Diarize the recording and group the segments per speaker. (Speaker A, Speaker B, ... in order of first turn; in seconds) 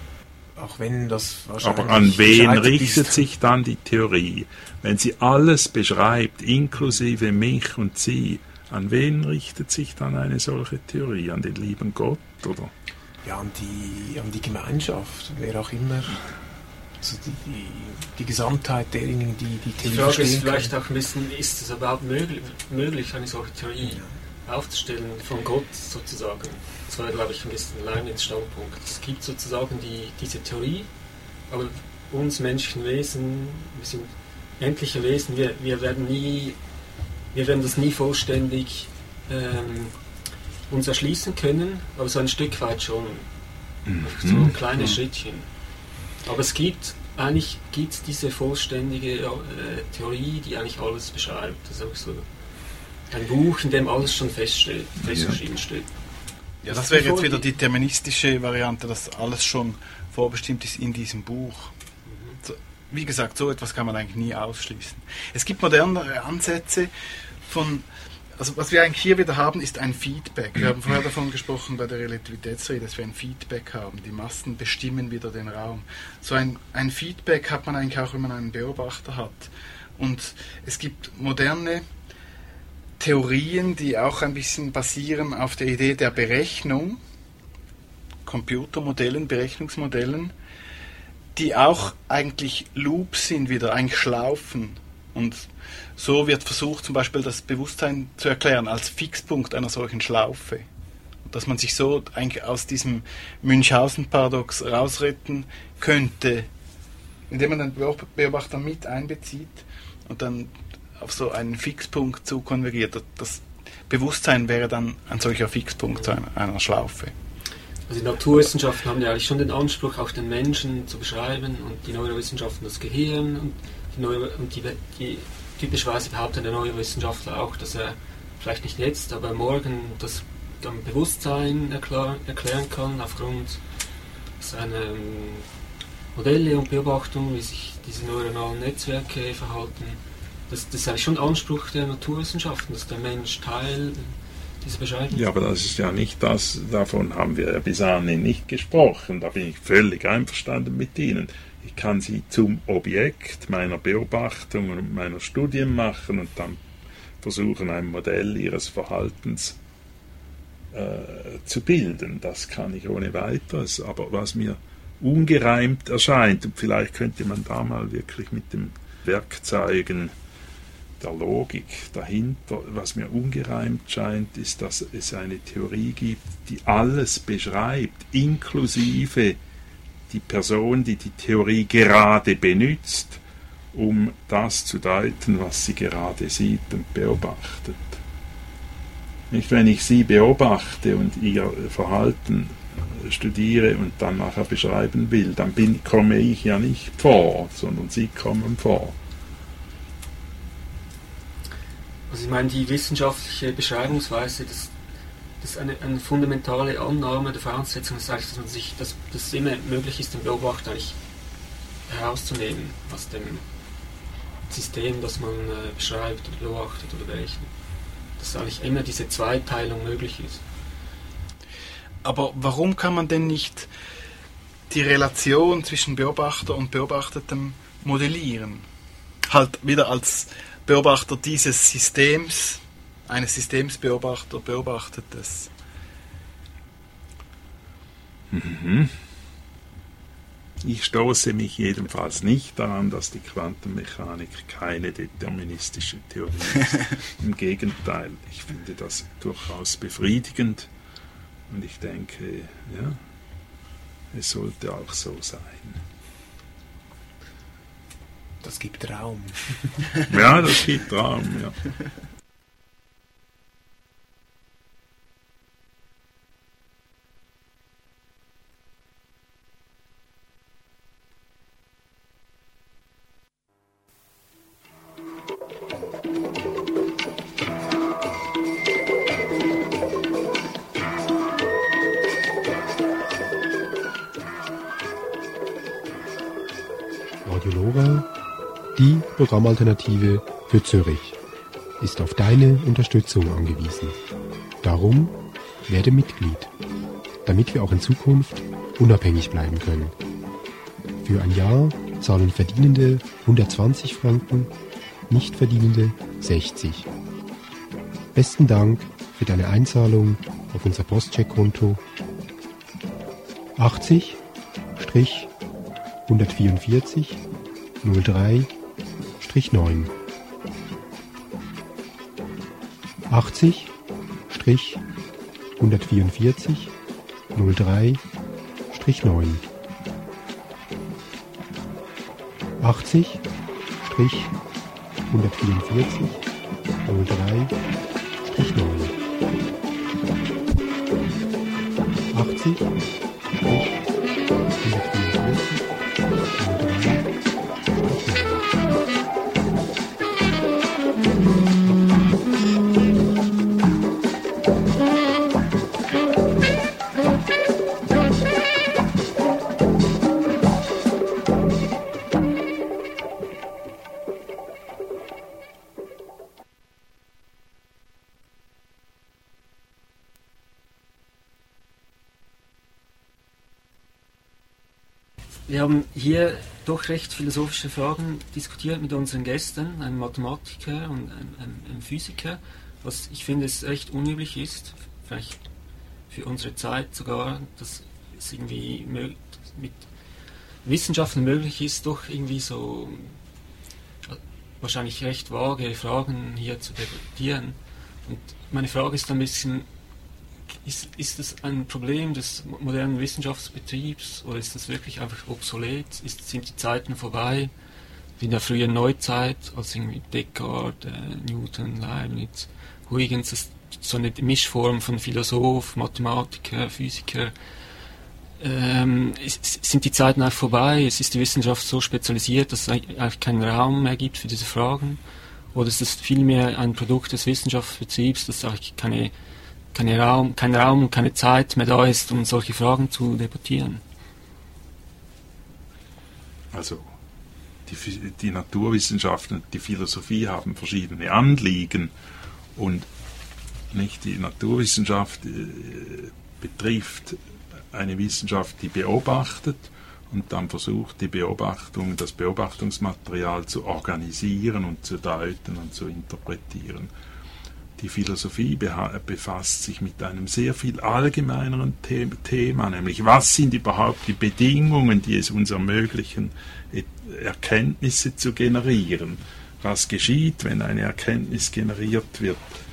Speaker A: 0.6-3.2, 13.2-16.2, 17.0-20.7, 258.4-259.9
Speaker B: 1.6-12.7, 43.9-44.5, 55.0-55.4, 145.1-156.6, 157.2-159.6, 160.7-170.1, 171.0-179.4, 180.1-183.2, 183.7-188.0, 189.3-198.9, 238.3-238.9, 240.6-250.7, 251.5-253.0, 254.1-255.8, 260.1-261.6, 436.5-436.9, 437.7-441.9, 442.6-442.9, 443.7-447.2, 447.7-456.9, 457.8-472.4
Speaker C: 19.8-30.9, 31.5-36.6, 37.3-39.9, 40.7-43.3, 44.0-45.5, 46.2-52.2, 53.1-55.9, 56.7-57.5, 117.9-133.6, 134.4-135.4, 136.1-144.1, 144.6-145.2, 202.1-204.7, 205.4-210.9, 211.9-213.4, 214.5-217.5, 218.2-220.4, 375.5-385.4, 386.1-389.8, 390.6-393.2, 394.1-399.6, 400.6-407.5, 408.2-417.3, 418.4-425.0, 425.5-429.1, 429.7-433.8
Speaker D: 56.6-61.7, 62.4-66.9, 67.4-81.8, 83.0-87.0, 88.2-90.3, 91.3-100.7, 101.2-106.5, 107.3-117.1, 222.0-223.7, 224.7-228.7, 229.3-235.5
Speaker E: 287.2-288.1, 288.7-291.2, 291.8-294.0, 294.6-296.5, 297.2-299.9, 301.0-304.5, 305.1-306.9, 308.1-311.8, 313.6-314.2, 314.8-315.3, 316.1-317.2, 317.8-318.5, 319.2-319.9, 323.1-323.7, 324.3-324.8, 325.6-326.7, 327.3-328.0, 328.7-329.5, 332.6-333.2, 333.8-334.3, 335.1-336.2, 336.8-337.6, 338.2-339.0, 342.1-342.7, 343.4-343.8, 344.6-345.6, 346.3-347.1, 347.8-348.5